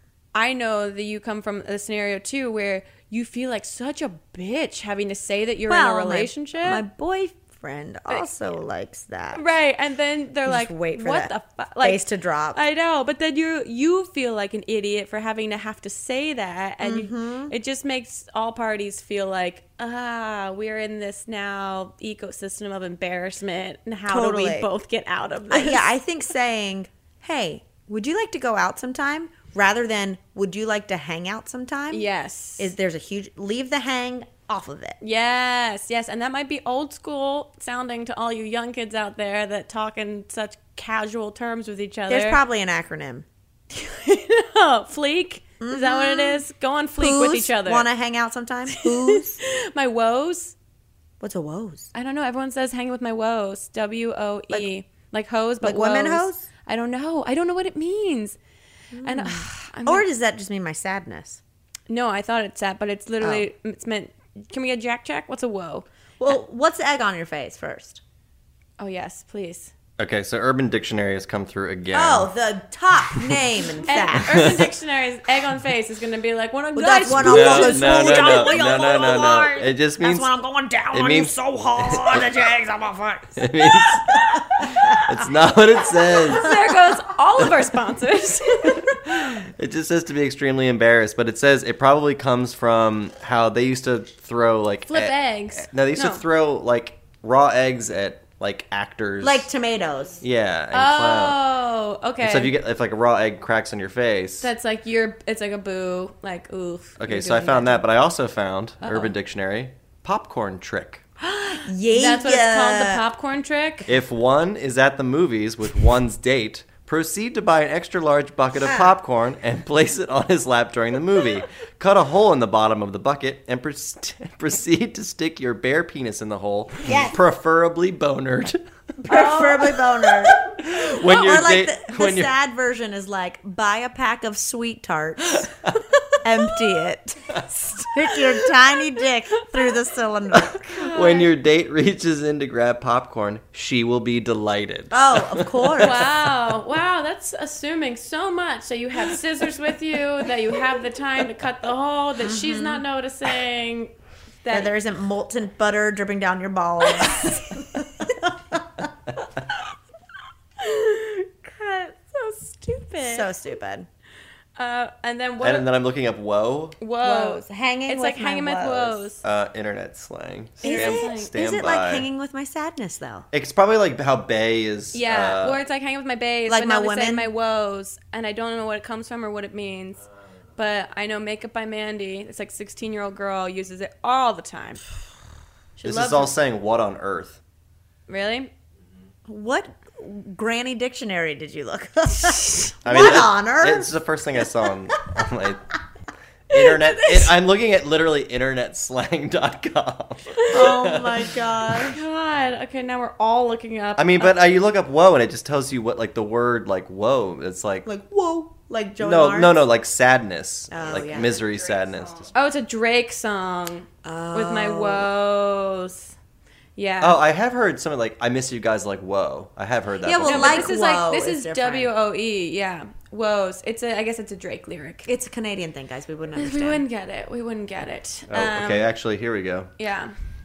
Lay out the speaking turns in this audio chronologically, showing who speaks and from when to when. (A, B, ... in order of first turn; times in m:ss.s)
0:00.3-0:06.8 A
0:05.7-0:09.4 B
0:09.4-0:25.9 A
0:10.5-0:12.6 B
0:16.8-0:17.5 B
0:24.1-0:24.7 B
0:25.5-0:32.1 B
0:31.9-0:32.7 A
0:32.6-0:35.0 B
0:35.0-0:42.4 A
0:42.1-0:43.3 B
0:43.7-0:47.9 A
0:45.6-0:46.4 B
0:47.0-0:49.4 B
0:48.8-0:50.6 A
0:51.2-0:51.9 B
0:51.9-0:58.4 A
0:55.6-0:56.5 B
0:58.9-1:01.4 B
0:59.0-1:00.0 A
1:01.9-1:05.8 A
1:03.2-1:03.5 B
1:06.2-1:08.0 B
1:08.8-1:09.7 A
1:10.0-1:12.3 C
1:11.9-1:14.6 B
1:13.8-1:18.5 A
1:14.2-1:14.6 C
1:16.7-1:25.3 B
1:17.1-1:20.3 C
1:20.9-1:22.3 C
1:23.4-1:26.6 C
1:26.1-1:29.3 A
1:29.2-1:39.5 C
1:34.9-1:36.2 A
1:39.2-1:40.2 B
1:40.2-1:41.4 C
1:40.7-1:42.5 A
1:42.2-1:44.5 C
1:44.4-1:47.8 A
1:47.0-1:51.0 C
1:48.8-1:49.1 A
1:51.2-1:53.0 B
1:51.9-1:53.9 A
1:53.9-2:09.3 C
1:58.6-1:58.9 B
2:06.8-2:07.2 B
2:09.0-2:15.5 B
2:09.1-2:09.7 A
2:10.3-2:12.3 C
2:16.2-2:21.0 B
2:20.5-2:21.3 A
2:20.9-2:25.9 C
2:24.9-2:26.1 B
2:25.8-2:34.7 A
2:32.2-2:32.8 B
2:34.5-2:38.9 B
2:40.6-2:43.3 A
2:43.0-2:43.9 B
2:44.6-2:45.7 A
2:45.4-2:46.8 C
2:46.8-2:49.2 A
2:47.0-2:49.0 B
2:49.2-2:52.1 C
2:50.6-2:51.3 A
2:50.6-2:53.3 B
2:53.3-2:55.6 C
2:54.9-3:00.0 A
2:56.5-2:57.3 B
3:00.6-3:04.8 A
3:05.8-3:06.3 A
3:05.8-3:07.4 C
3:08.1-3:08.5 A
3:09.3-3:13.9 B
3:12.8-3:15.8 C
3:16.5-3:21.3 C
3:20.4-3:20.9 A
3:20.5-3:22.0 B
3:21.8-3:24.4 A
3:24.0-3:27.9 C
3:27.8-3:29.6 B
3:29.0-3:32.3 C
3:30.7-3:31.6 B
3:32.3-3:36.1 A
3:34.0-3:35.1 B
3:36.8-3:37.2 A
3:37.0-3:40.7 C
3:40.0-3:41.9 B
3:40.2-3:45.1 A
3:45.1-3:46.8 B
3:46.4-3:48.9 A
3:48.3-3:49.7 C
3:49.8-3:50.1 A